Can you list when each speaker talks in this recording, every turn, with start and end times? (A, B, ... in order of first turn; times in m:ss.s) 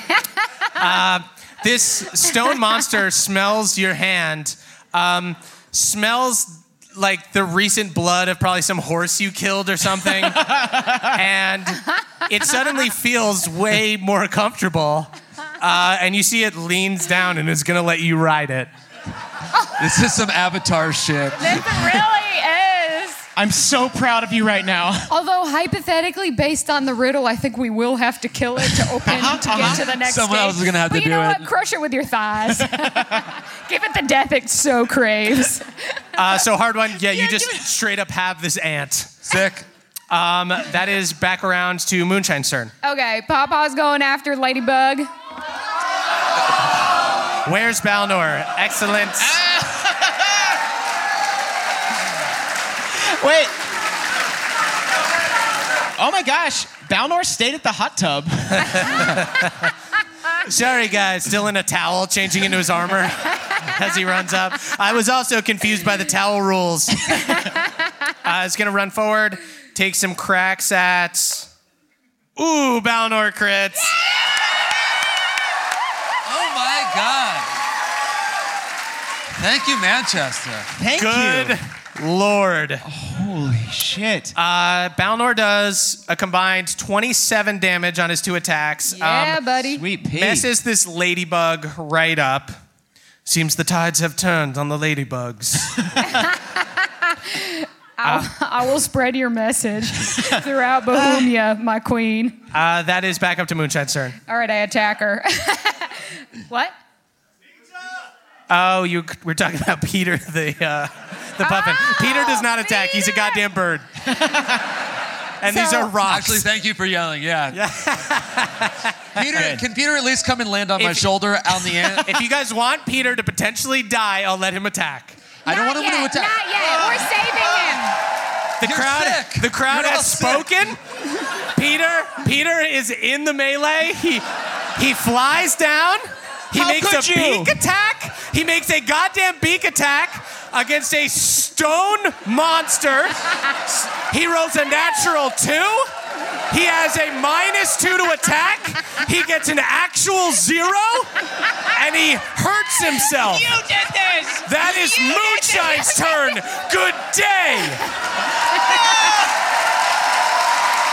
0:00.8-0:10.5 A
0:10.5-0:11.0 B
0:11.0-0:18.7 A
0:19.8-0:22.0 C
0:21.3-0:23.2 D
0:23.4-0:25.1 B
0:25.1-0:36.0 D
0:29.0-0:29.9 B
0:29.6-0:31.5 C
0:32.8-0:33.2 B
0:36.2-0:39.2 A
0:39.2-0:39.6 C
0:40.1-0:42.7 A
0:42.8-0:45.1 D
0:47.4-0:49.4 A
0:49.2-0:50.5 B
0:52.9-0:53.6 B
0:56.0-0:59.2 B
0:58.6-0:59.6 A
1:00.5-1:07.4 A
1:08.2-1:11.5 A
1:12.4-1:14.0 A
1:16.2-1:17.5 C
1:19.4-1:20.7 C
1:20.8-1:21.6 B
1:21.0-1:22.8 A
1:22.8-1:24.3 B
1:24.4-1:29.4 A
1:28.9-1:29.8 D
1:29.7-1:30.5 B
1:30.1-1:32.5 A
1:33.2-1:35.9 A
1:36.0-1:42.4 D
1:38.0-1:38.3 A
1:42.5-1:44.2 A
1:44.2-1:46.8 D
1:48.5-1:53.9 A
1:51.4-1:53.4 D
1:55.4-1:56.5 A
1:55.4-1:55.9 D
1:56.0-1:57.6 C
1:57.5-1:59.6 A
1:59.2-2:02.2 C
2:00.8-2:05.2 A
2:05.4-2:06.5 C
2:05.5-2:08.0 D
2:06.6-2:07.7 B
2:08.6-2:10.8 A
2:08.6-2:10.5 C
2:11.4-2:14.2 A
2:14.8-2:23.4 A
2:16.5-2:17.6 B
2:24.1-2:25.9 A
2:26.5-2:33.6 A
2:33.2-2:34.4 B
2:34.4-2:37.8 A
2:34.8-2:36.1 D